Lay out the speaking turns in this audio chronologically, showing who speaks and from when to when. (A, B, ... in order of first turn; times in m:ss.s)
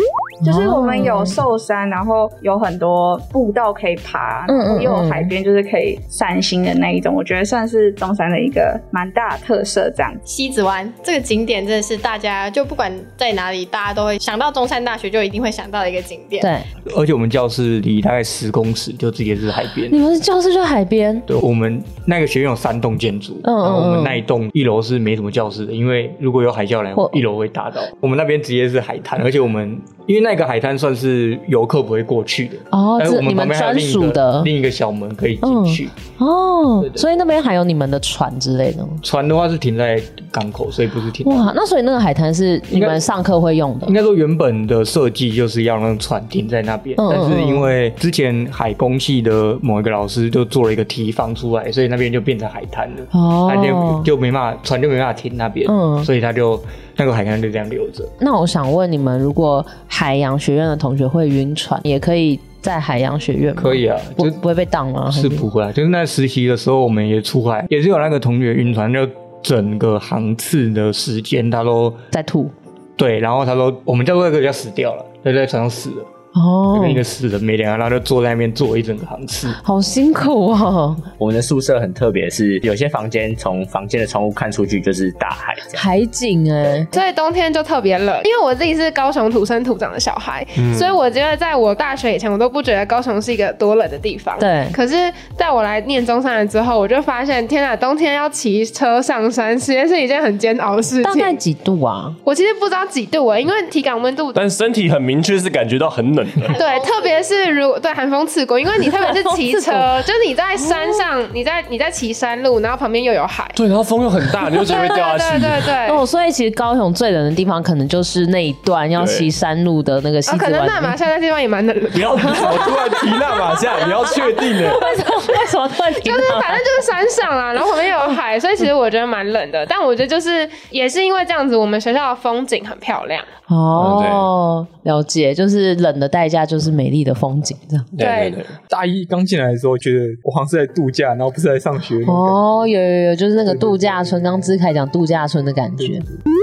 0:00.4-0:10.2 A
0:00.4-0:01.4 B
0:04.5-0:05.3 B
0:10.2-0:16.5 C
0:16.4-0:16.7 B
0:16.9-0:20.0 D
0:19.9-0:21.2 B
0:21.3-0:35.9 D
0:23.4-0:24.2 B
0:27.0-0:27.2 B
0:32.7-0:34.5 B
0:35.4-0:39.0 B
0:39.0-0:41.5 D
0:41.2-0:44.0 B
0:42.7-0:43.0 D
0:43.8-0:58.1 D
0:47.0-0:47.7 B
0:53.1-0:54.1 B
0:55.6-0:56.1 B
0:58.2-1:05.5 B
1:03.6-1:04.4 D
1:05.1-1:12.0 D
1:12.1-1:12.5 B
1:13.0-1:16.1 D
1:16.3-1:17.0 B
1:16.7-1:19.6 D
1:19.6-1:21.0 B
1:21.2-1:25.8 E
1:25.7-1:26.9 B
1:26.9-1:41.4 F
1:30.6-1:30.9 G
1:34.4-1:34.8 B
1:41.0-1:42.2 B
1:42.2-1:44.4 F
1:44.3-1:46.5 G
1:46.4-1:47.2 C
1:46.6-1:53.6 F
1:49.0-1:49.9 B
1:50.6-1:51.0 B
1:53.6-1:55.7 G
1:54.6-1:56.0 F
1:55.8-2:00.9 B
1:59.0-1:59.3 G
2:00.3-2:02.7 F
2:01.9-2:04.8 G
2:04.7-2:06.6 B
2:06.0-2:13.3 F
2:13.5-2:17.9 B
2:13.8-2:14.3 G
2:18.0-2:18.5 G
2:18.0-2:18.4 F
2:18.7-2:22.5 H
2:22.0-2:26.0 B
2:23.5-2:24.3 H